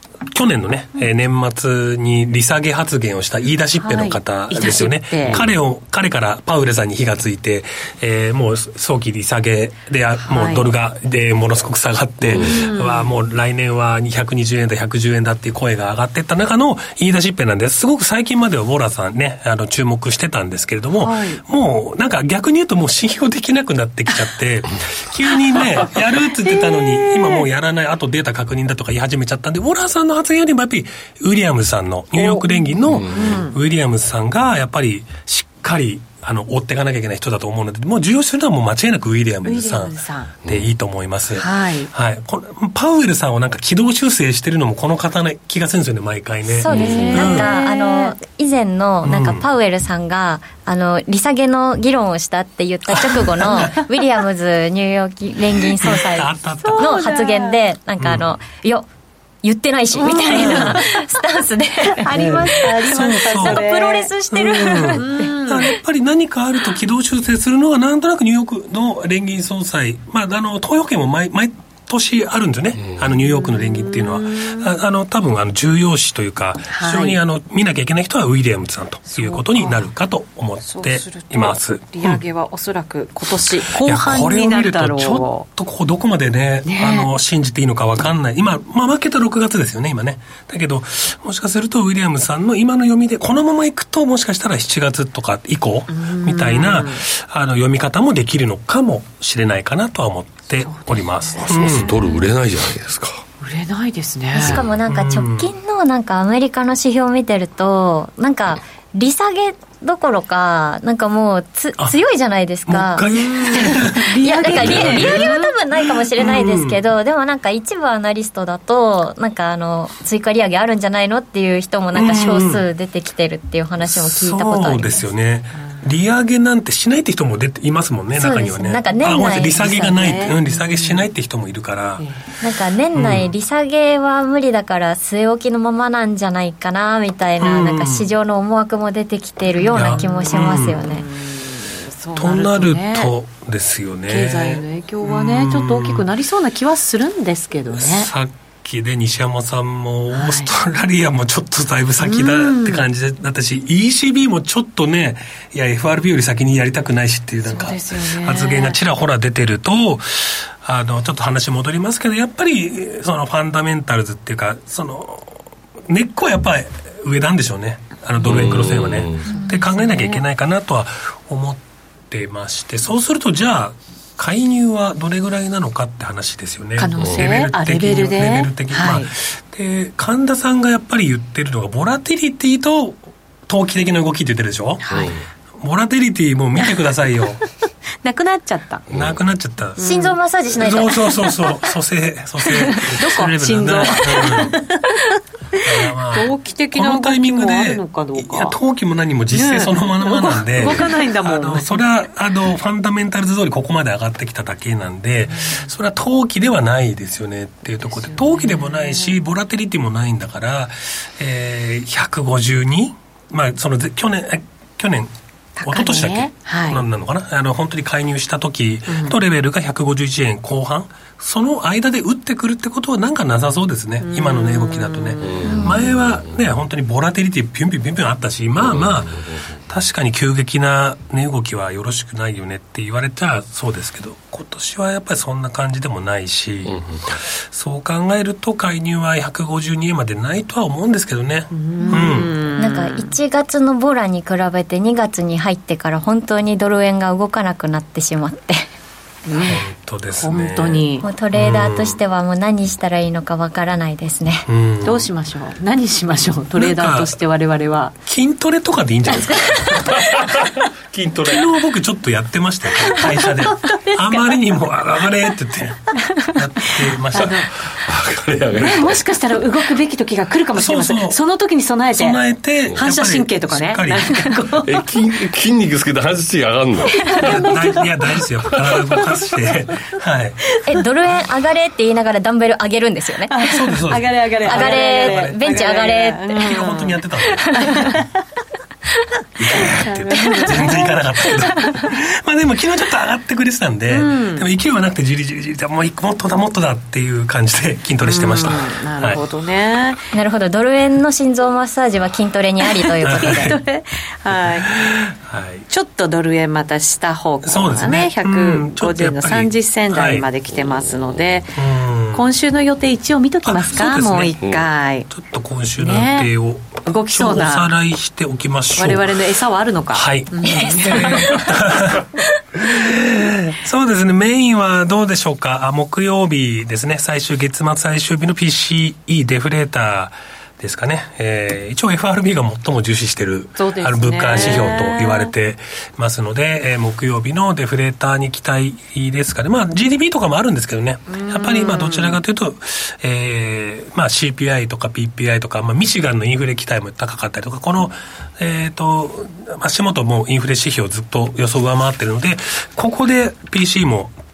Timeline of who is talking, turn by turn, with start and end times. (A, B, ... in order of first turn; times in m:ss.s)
0:00.3-0:47.5 A
0:03.8-0:05.4 B
0:10.3-0:10.7 B
0:12.3-0:12.7 C
0:12.3-0:13.1 B
0:21.0-0:21.4 B
0:26.4-0:27.4 B
0:32.2-0:33.6 B
0:32.9-0:33.4 C
0:39.4-0:40.3 B
0:41.4-0:41.9 B
0:46.5-0:58.9 D
0:46.7-0:48.2 B
0:46.8-0:47.1 C
0:49.0-0:49.5 A
0:52.9-0:53.7 A
0:55.8-0:57.0 A
0:56.6-0:57.6 B
0:58.0-0:58.4 A
0:59.4-1:05.2 D
1:00.0-1:01.0 B
1:00.2-1:00.8 A
1:01.9-1:04.1 B
1:02.9-1:03.7 A
1:04.3-1:22.2 A
1:05.0-1:05.8 B
1:13.4-1:14.7 B
1:16.7-1:17.2 B
1:19.1-1:19.9 B
1:20.7-1:25.5 B
1:23.4-1:41.9 A
1:26.6-1:27.1 B
1:35.9-1:37.0 B
1:40.6-1:42.3 B
1:41.5-1:43.2 C
1:43.4-1:44.6 B
1:44.3-2:05.1 D
1:44.9-1:45.5 A
1:52.7-1:56.8 A
1:53.2-1:55.4 B
2:01.9-2:02.6 A
2:03.8-2:12.0 A
2:05.6-2:05.8 B
2:08.1-2:10.3 D
2:09.9-2:11.1 B
2:12.0-2:12.2 B
2:12.4-2:21.0 D
2:12.9-2:13.3 A
2:17.4-2:18.1 A
2:19.5-2:23.1 B
2:19.8-2:20.8 A
2:22.2-2:26.0 A
2:24.1-2:28.1 B
2:27.7-3:07.4 A
2:30.1-2:30.5 B
2:32.0-2:32.9 B
2:37.5-2:38.8 B
2:48.2-2:49.3 C
2:49.2-2:50.2 B
2:56.8-2:59.1 B
2:57.0-2:57.3 C
3:04.8-3:05.2 B
3:08.0-3:08.8 B
3:08.9-3:09.2 C
3:08.9-3:09.8 A
3:09.8-3:10.1 B
3:09.8-3:11.2 D
3:10.5-3:14.6 A
3:12.5-3:18.6 B
3:15.6-3:35.1 A
3:19.3-3:21.8 B
3:25.3-3:25.7 B
3:27.8-3:29.1 B
3:35.6-3:36.8 B
3:35.6-4:02.6 A
3:38.9-3:39.2 B
3:44.0-3:45.8 B
3:45.2-3:46.3 C
3:48.6-3:49.5 C
3:56.6-3:57.0 C
4:01.5-4:03.1 B
4:01.8-4:08.6 D
4:09.3-4:09.6 B
4:09.4-4:12.0 A
4:10.2-4:11.1 B
4:11.0-4:14.5 D
4:14.5-4:15.1 A
4:14.8-4:18.0 B
4:16.6-4:17.2 A
4:18.1-4:20.4 A
4:19.1-4:19.9 B
4:19.9-4:21.5 C
4:21.2-4:27.5 A
4:22.8-4:24.4 B
4:25.9-4:27.8 B
4:27.8-4:29.0 C
4:28.6-4:32.2 B
4:30.6-4:31.2 A
4:31.9-4:34.4 A
4:32.8-4:34.9 B
4:34.6-4:37.1 C
4:36.9-4:39.8 B
4:37.2-4:40.4 A
4:40.6-4:43.4 D
4:43.3-4:46.9 B
4:43.5-4:45.4 A
4:44.4-4:46.7 D
4:46.4-4:48.0 A
4:47.3-4:47.9 D
4:47.5-4:48.1 B
4:49.4-4:59.2 A
4:49.5-4:51.9 B
4:53.9-4:54.5 B
4:58.0-5:00.1 B
5:00.1-5:03.5 D
5:02.9-5:05.0 B
5:03.0-5:03.6 A
5:04.4-5:05.7 A
5:05.7-5:11.6 B
5:07.4-5:10.2 A
5:11.6-5:12.3 A
5:12.1-5:15.1 B
5:13.4-5:14.4 A
5:15.1-5:19.2 A
5:15.8-5:16.3 B
5:16.8-5:17.7 B
5:18.8-5:21.5 B
5:19.9-5:54.1 A
5:33.6-5:35.3 B
5:41.1-5:42.2 B